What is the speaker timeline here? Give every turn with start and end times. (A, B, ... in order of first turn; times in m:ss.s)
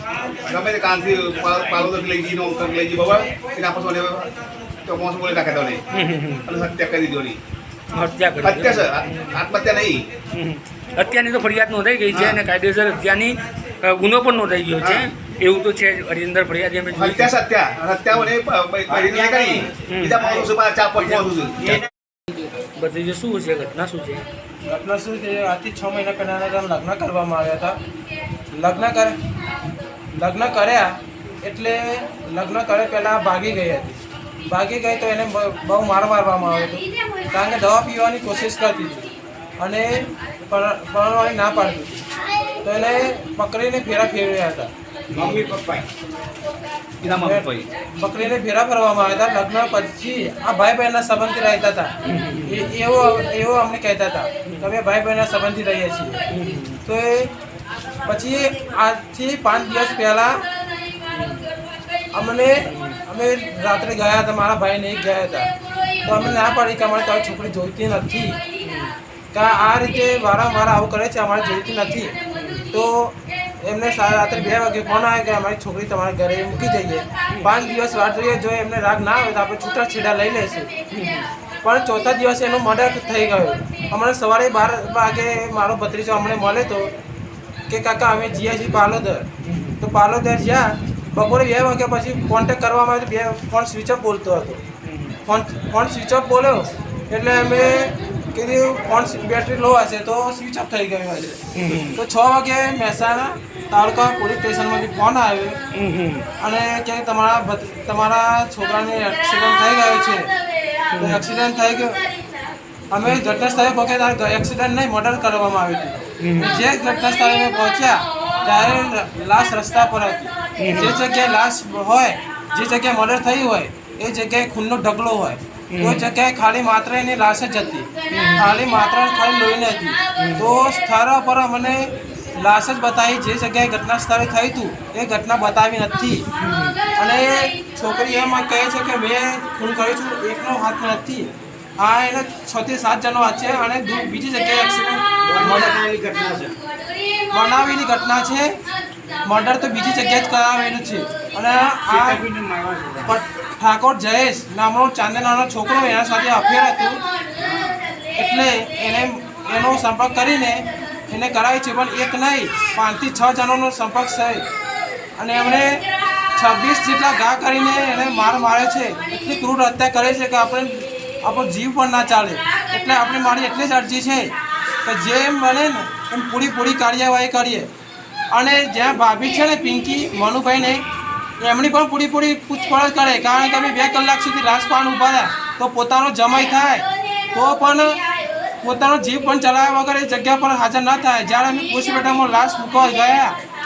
0:00.5-0:04.3 A
0:04.8-0:05.8 A
0:05.9-0:06.5 B
0:06.4-0:07.4 A
0:07.9-0:09.4 B
0:08.4-0:10.1 A
0:10.3-0:17.3 B
0:12.1-0:12.4 A
0:14.8-0:15.0 A
0:16.9-0:21.8 A
0:18.9-0:19.7 C
0:19.9-0:20.3 B
0:20.2-0:20.6 C
0:21.6-0:21.8 C
0:22.8-0:24.2 B
0:24.6-0:27.8 D
0:28.5-0:29.1 D
0:30.1-0:42.0 D
0:42.6-0:44.7 D
0:45.1-0:45.8 C
0:45.2-0:45.6 B
0:47.0-0:47.7 A
0:47.1-0:51.9 D
0:52.0-0:52.7 B
0:52.4-0:56.2 D
0:54.4-0:54.7 B
0:56.3-0:56.8 B
0:56.8-0:57.3 D
0:58.0-1:00.4 D
1:01.1-1:01.4 B
1:02.1-1:05.5 D
1:02.6-1:03.0 B
1:06.0-1:08.4 D
1:06.1-1:06.5 B
1:08.6-1:08.9 B
1:09.3-1:12.2 D
1:12.3-1:12.7 B
1:12.7-1:20.7 D
1:20.9-1:21.3 B
1:21.6-1:26.9 D
1:27.7-1:34.6 D
1:29.4-1:29.8 B
1:34.8-1:35.2 B
1:35.2-1:41.4 D
1:41.6-1:42.0 B
1:41.9-1:45.6 D
1:45.7-1:46.3 B
1:46.4-1:50.3 D
1:50.9-1:51.2 B
1:51.0-1:52.0 D
1:52.9-2:16.2 D
1:56.2-1:56.6 B
2:00.6-2:01.0 B
2:05.7-2:06.1 B
2:08.1-2:08.6 B
2:10.2-2:10.5 B
2:16.4-2:16.8 B
2:17.0-2:25.8 D
2:25.2-2:26.6 C
2:27.3-2:28.6 D
2:29.2-2:32.2 D
2:31.9-2:33.1 C
2:33.1-2:37.0 D
2:37.4-2:37.8 C
2:38.2-2:44.4 D
2:45.2-2:45.8 D
2:46.4-2:54.3 D
2:54.8-2:57.7 D
2:58.3-3:00.8 D
3:01.4-3:08.0 D
3:08.6-3:13.4 D